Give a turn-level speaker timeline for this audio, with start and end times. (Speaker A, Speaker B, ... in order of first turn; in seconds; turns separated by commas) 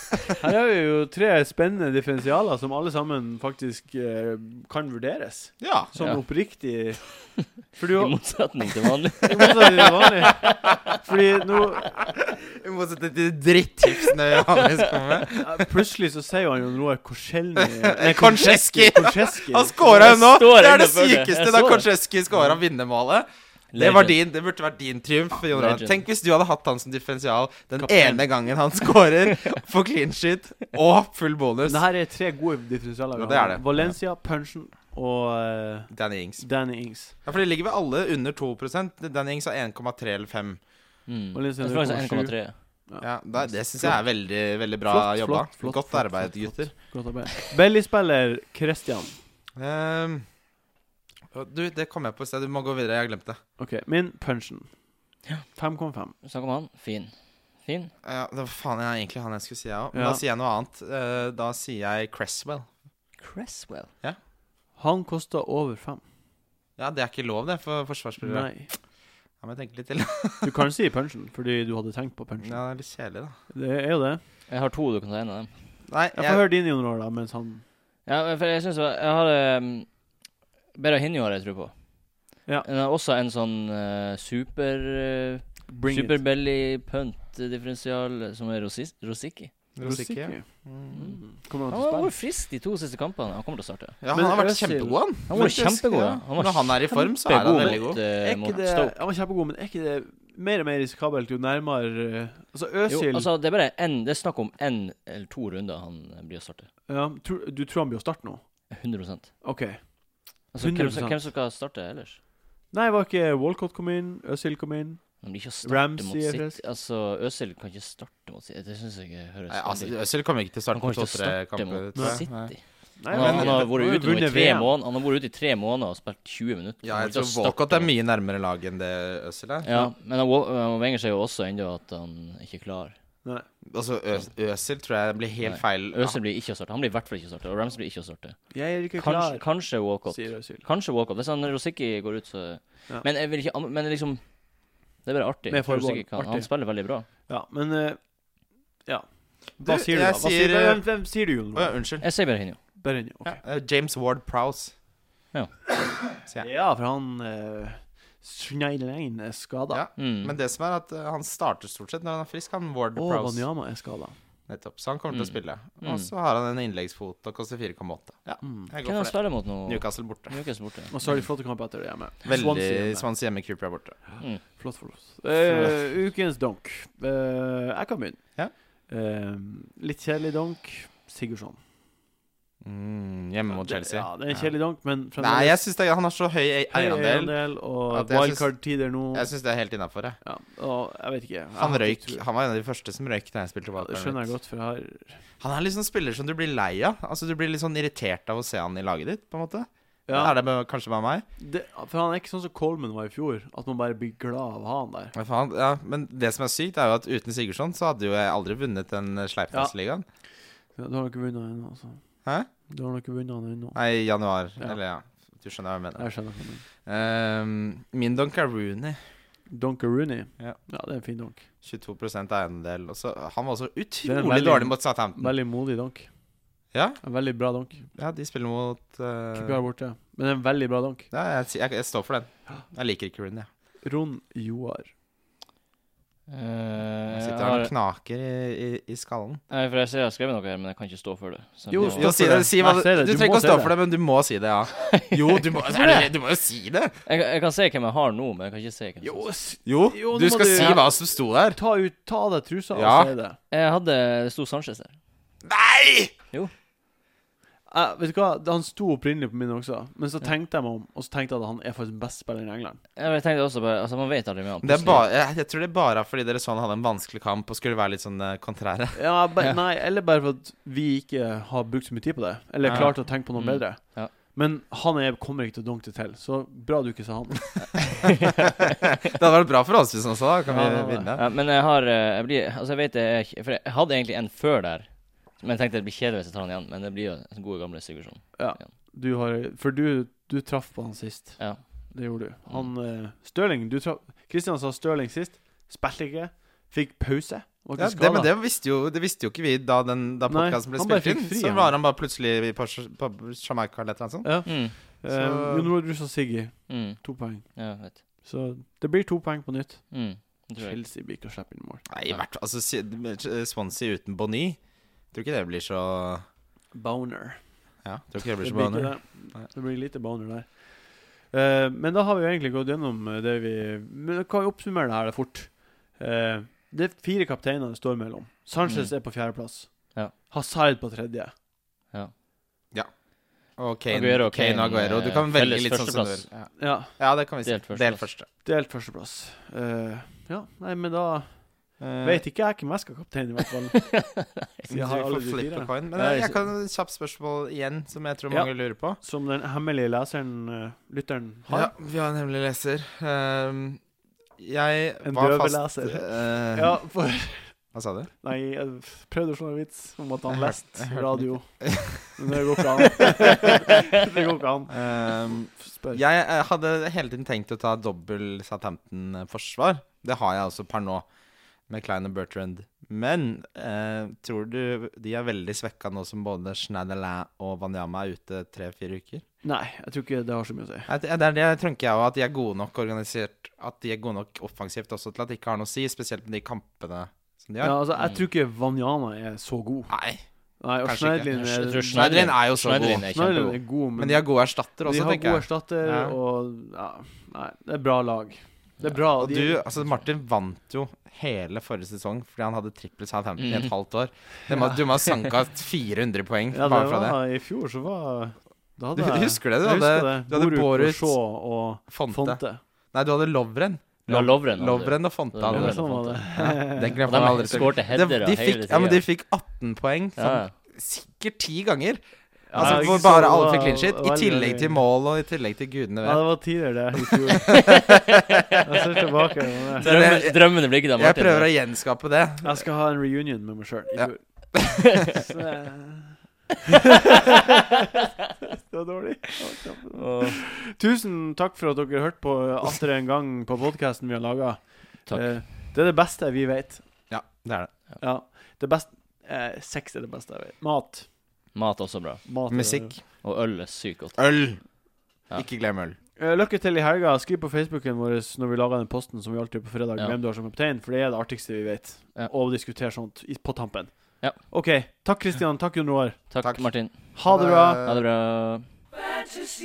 Speaker A: 0.3-8.2, Speaker B: 5.6-5.9, Speaker C: 7.4-10.8, Speaker A: 9.2-12.0, Speaker B: 12.2-15.8, Speaker C: 14.5-14.9, Speaker A: 15.3-20.2, Speaker B: 17.6-31.8, Speaker C: 19.9-21.9, Speaker C: 23.7-24.2, Speaker C: 25.5-26.0, Speaker A: 27.8-28.2, Speaker A: 31.6-37.1, Speaker B: 33.1-33.9, Speaker B: 35.9-36.4, Speaker B: 37.2-40.6, Speaker C: 41.1-42.5, Speaker A: 41.3-42.4, Speaker A: 42.9-44.0, Speaker B: 43.0-46.7, Speaker A: 44.9-49.2, Speaker B: 49.5-50.2, Speaker B: 51.3-53.4, Speaker A: 53.6-54.7, Speaker A: 55.5-56.1, Speaker C: 56.2-57.9, Speaker B: 58.0-62.7, Speaker A: 59.9-60.2, Speaker C: 63.2-63.9, Speaker A: 64.8-66.0, Speaker B: 66.8-68.6, Speaker A: 68.2-68.7, Speaker B: 69.4-70.5, Speaker A: 70.4-72.6, Speaker B: 72.4-73.3, Speaker A: 73.5-74.2, Speaker C: 74.5-75.5, Speaker B: 75.9-76.4, Speaker A: 76.1-77.6, Speaker C: 78.0-79.9, Speaker C: 80.7-81.7, Speaker C: 82.6-89.5, Speaker A: 85.7-86.2, Speaker B: 89.7-90.9, Speaker A: 89.8-92.1, Speaker C: 91.7-94.0, Speaker B: 94.0-98.0, Speaker A: 94.1-95.5, Speaker C: 95.3-99.0, Speaker A: 97.3-103.3, Speaker C: 102.9-106.7, Speaker A: 106.9-108.4, Speaker C: 108.7-109.3, Speaker A: 109.4-111.2, Speaker C: 110.5-112.2, Speaker A: 112.7-116.6, Speaker C: 115.2-127.9, Speaker B: 119.5-122.5, Speaker A: 121.9-122.2, Speaker A: 123.0-124.7, Speaker B: 123.1-123.7, Speaker B: 126.8-129.7, Speaker C: 129.6-132.9, Speaker B: 133.7-136.2, Speaker C: 135.4-147.1, Speaker A: 138.5-140.6, Speaker A: 145.5-152.0, Speaker B: 149.6-152.1, Speaker C: 152.0-152.6, Speaker A: 152.7-153.4, Speaker B: 153.2-154.7, Speaker A: 156.4-159.8, Speaker B: 159.7-163.4, Speaker C: 160.0-160.3, Speaker A: 162.9-164.2, Speaker B: 164.5-170.4, Speaker C: 165.1-166.1, Speaker A: 168.4-168.7, Speaker C: 168.8-171.1, Speaker A: 170.9-173.1, Speaker B: 172.2-174.0, Speaker C: 174.2-175.0, Speaker A: 174.4-181.6, Speaker B: 175.4-175.7, Speaker B: 182.6-184.5, Speaker A: 183.5-185.6, Speaker B: 185.2-190.2, Speaker A: 186.7-189.3, Speaker A: 190.2-192.2, Speaker B: 191.6-194.3, Speaker A: 193.8-195.2, Speaker B: 195.4-201.2, Speaker A: 200.1-200.3, Speaker A: 201.4-205.1, Speaker B: 205.1-210.0, Speaker A: 210.8-212.0, Speaker A: 212.7-213.8, Speaker B: 213.7-216.1, Speaker A: 216.0-216.6, Speaker B: 216.8-219.0, Speaker A: 219.5-221.4, Speaker B: 221.6-225.3, Speaker A: 224.0-226.1, Speaker B: 226.7-227.0, Speaker A: 227.0-227.8, Speaker B: 227.9-229.6, Speaker A: 229.3-231.1, Speaker B: 231.1-233.5, Speaker A: 233.8-234.9, Speaker C: 236.3-237.7, Speaker B: 237.1-239.4, Speaker C: 239.5-242.2, Speaker A: 241.7-243.8, Speaker B: 241.9-246.9, Speaker C: 244.8-246.0, Speaker C: 247.1-249.3, Speaker A: 249.0-250.9, Speaker B: 249.7-251.6, Speaker C: 250.5-250.8, Speaker A: 251.5-253.4, Speaker B: 252.7-253.1, Speaker C: 253.5-254.9, Speaker B: 255.4-256.1, Speaker A: 257.7-262.8, Speaker C: 262.9-265.1, Speaker B: 264.6-269.0, Speaker A: 268.9-277.8, Speaker B: 272.6-272.9, Speaker C: 272.7-274.1, Speaker C: 277.8-278.5, Speaker B: 279.1-281.2, Speaker A: 280.5-281.1, Speaker C: 281.1-288.7, Speaker A: 288.4-298.3, Speaker C: 291.4-291.9, Speaker B: 297.8-305.7, Speaker A: 300.3-301.8, Speaker A: 304.2-311.8, Speaker C: 304.4-304.7, Speaker C: 306.7-308.0, Speaker C: 309.9-310.8, Speaker B: 311.9-314.6, Speaker B: 315.1-316.2, Speaker A: 316.7-317.5, Speaker B: 317.8-319.4, Speaker A: 318.4-331.3, Speaker C: 328.6-329.0, Speaker B: 333.5-338.3, Speaker C: 333.9-336.2, Speaker A: 336.6-336.9, Speaker C: 337.4-338.1, Speaker A: 338.4-343.9, Speaker B: 341.8-342.2, Speaker C: 343.7-344.7, Speaker B: 344.7-349.0, Speaker A: 344.7-345.7, Speaker C: 345.9-346.4, Speaker A: 348.3-351.7, Speaker B: 351.5-353.8, Speaker B: 354.4-356.8, Speaker A: 355.0-357.6, Speaker B: 357.7-358.1, Speaker A: 358.2-364.9, Speaker B: 360.3-362.1, Speaker B: 362.8-363.4, Speaker B: 364.7-371.1, Speaker A: 365.5-366.0, Speaker B: 371.7-379.2, Speaker A: 379.4-380.9, Speaker B: 380.9-387.8, Speaker A: 387.6-389.9, Speaker B: 389.9-390.2, Speaker A: 390.6-399.7, Speaker B: 390.8-393.1, Speaker C: 391.3-393.6, Speaker B: 394.0-396.1, Speaker B: 399.2-407.2, Speaker C: 403.4-403.7, Speaker A: 406.5-412.6, Speaker B: 408.9-411.2, Speaker B: 411.9-412.4, Speaker B: 412.9-422.0, Speaker C: 414.0-416.4, Speaker A: 415.5-417.4, Speaker C: 417.0-419.0, Speaker C: 420.2-420.5, Speaker A: 422.5-424.8, Speaker B: 422.5-426.3, Speaker C: 422.5-423.0, Speaker A: 426.0-427.6, Speaker B: 427.5-428.2, Speaker C: 427.5-428.6, Speaker A: 428.6-429.9, Speaker C: 429.8-431.5, Speaker B: 429.8-432.6, Speaker A: 432.4-436.2, Speaker B: 433.9-435.0, Speaker A: 437.1-437.7, Speaker A: 438.5-447.0, Speaker C: 439.9-440.4, Speaker C: 445.1-445.5, Speaker B: 447.1-447.7, Speaker A: 448.0-451.1, Speaker C: 451.5-452.3, Speaker A: 452.2-453.0, Speaker B: 452.5-453.0, Speaker C: 453.2-454.4, Speaker B: 454.1-456.0, Speaker A: 456.1-466.3, Speaker C: 466.3-467.2, Speaker B: 466.4-468.0, Speaker A: 467.1-467.8, Speaker C: 467.8-468.8